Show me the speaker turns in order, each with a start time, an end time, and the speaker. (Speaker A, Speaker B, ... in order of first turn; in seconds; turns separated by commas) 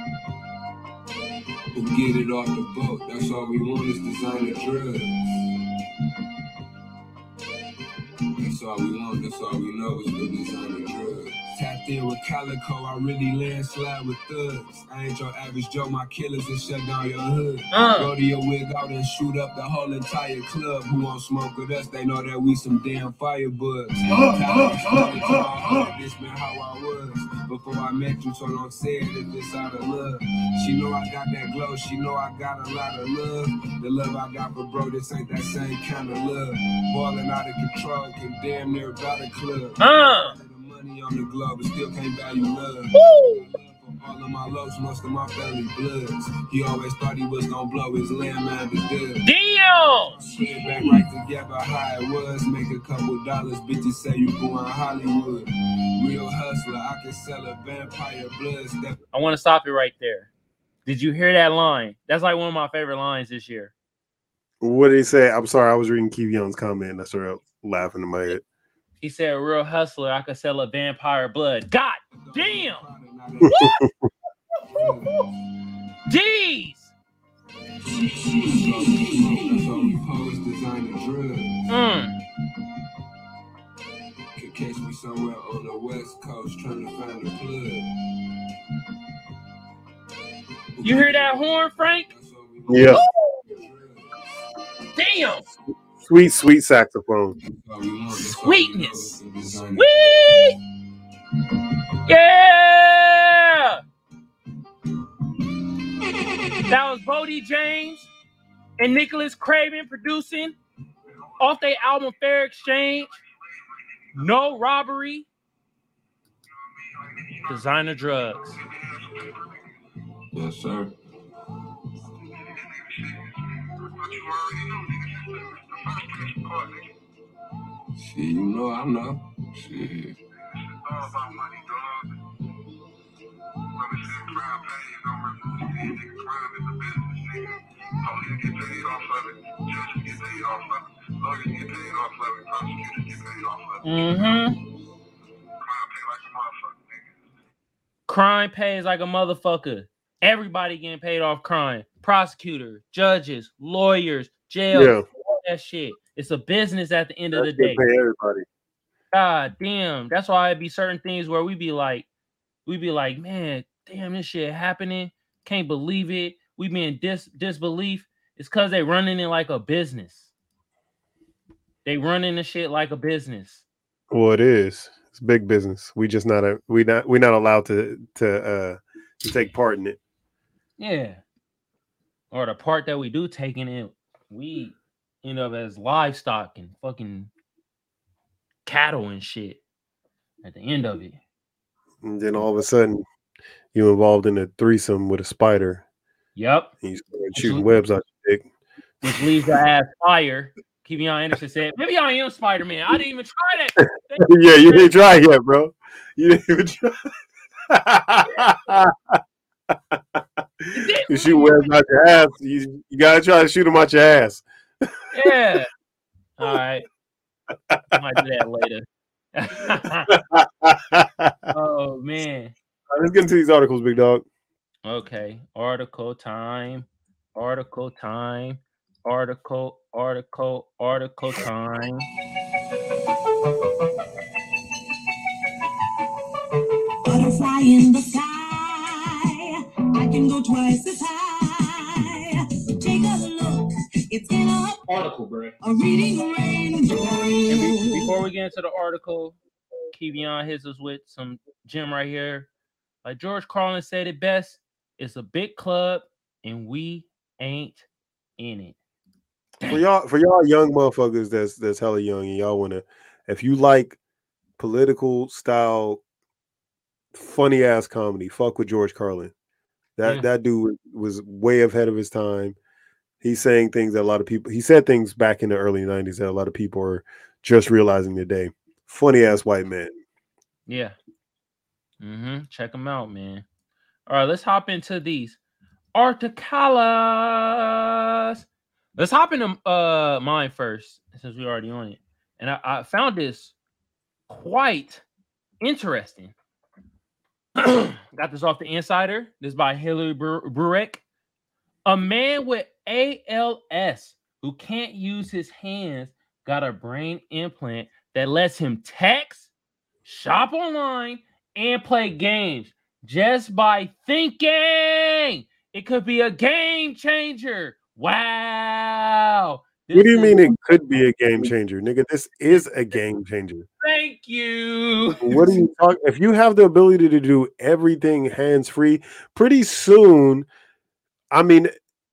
Speaker A: 1.7-5.1, Speaker A: 8.4-49.3, Speaker B: 17.7-18.1, Speaker B: 39.8-40.4, Speaker B: 42.9-43.4, Speaker B: 49.2-50.1, Speaker A: 50.0-59.0, Speaker C: 50.5-51.0, Speaker B: 59.1-60.3, Speaker B: 60.9-63.7, Speaker D: 64.6-68.4, Speaker B: 69.0-72.8, Speaker A: 72.1-73.6, Speaker D: 73.4-73.9, Speaker B: 73.5-73.8, Speaker A: 74.6-75.3, Speaker B: 74.8-75.2, Speaker B: 76.1-76.9, Speaker A: 77.9-81.7, Speaker C: 77.9-79.8, Speaker B: 81.7-82.2, Speaker A: 84.3-87.9, Speaker A: 90.8-94.1, Speaker B: 90.8-92.1, Speaker D: 92.7-93.0, Speaker B: 92.9-93.4, Speaker B: 95.0-95.5, Speaker D: 96.0-97.3, Speaker A: 97.4-99.9, Speaker B: 98.4-99.2, Speaker B: 99.7-100.6, Speaker B: 102.1-103.8, Speaker B: 106.7-108.1, Speaker B: 108.8-110.6, Speaker B: 111.4-113.1, Speaker B: 114.2-115.3, Speaker A: 116.9-117.3, Speaker B: 117.5-118.6, Speaker A: 118.6-119.6, Speaker A: 120.3-121.0, Speaker A: 122.6-126.9, Speaker A: 128.0-130.2, Speaker A: 130.8-132.1, Speaker A: 133.7-144.2, Speaker B: 143.8-144.6, Speaker A: 145.6-147.0, Speaker B: 148.1-157.8, Speaker D: 154.7-155.1, Speaker D: 157.3-158.4, Speaker B: 159.1-162.1, Speaker B: 162.7-170.3, Speaker B: 171.8-173.6, Speaker D: 174.1-180.0, Speaker B: 180.8-181.2, Speaker B: 182.3-187.3, Speaker B: 188.7-189.6, Speaker B: 190.4-191.2, Speaker D: 192.0-193.0, Speaker D: 193.7-195.8, Speaker B: 196.4-196.7, Speaker D: 196.8-198.4, Speaker B: 197.3-197.7, Speaker B: 199.0-205.0, Speaker D: 199.0-199.3, Speaker D: 203.8-207.0, Speaker D: 207.7-214.9, Speaker B: 210.7-211.7, Speaker B: 215.1-215.7, Speaker B: 216.4-216.9, Speaker D: 217.7-218.0, Speaker B: 217.9-220.1, Speaker D: 220.1-221.4, Speaker B: 221.5-222.6, Speaker D: 222.9-224.2, Speaker B: 224.8-232.1, Speaker C: 237.1-248.2, Speaker B: 247.5-249.4, Speaker B: 249.9-252.5, Speaker B: 253.0-257.9, Speaker B: 258.4-258.8, Speaker D: 259.7-264.0, Speaker D: 264.6-266.0, Speaker D: 267.1-269.3, Speaker D: 270.0-272.6, Speaker D: 273.2-279.9, Speaker B: 280.7-280.9, Speaker B: 282.0-283.4, Speaker B: 284.1-285.4, Speaker B: 285.9-293.5, Speaker B: 294.3-295.0, Speaker B: 295.6-296.3, Speaker B: 297.6-301.0, Speaker B: 301.9-309.5, Speaker B: 310.1-320.6, Speaker D: 319.9-323.7, Speaker B: 323.8-325.6, Speaker D: 325.2-330.5, Speaker D: 331.3-331.7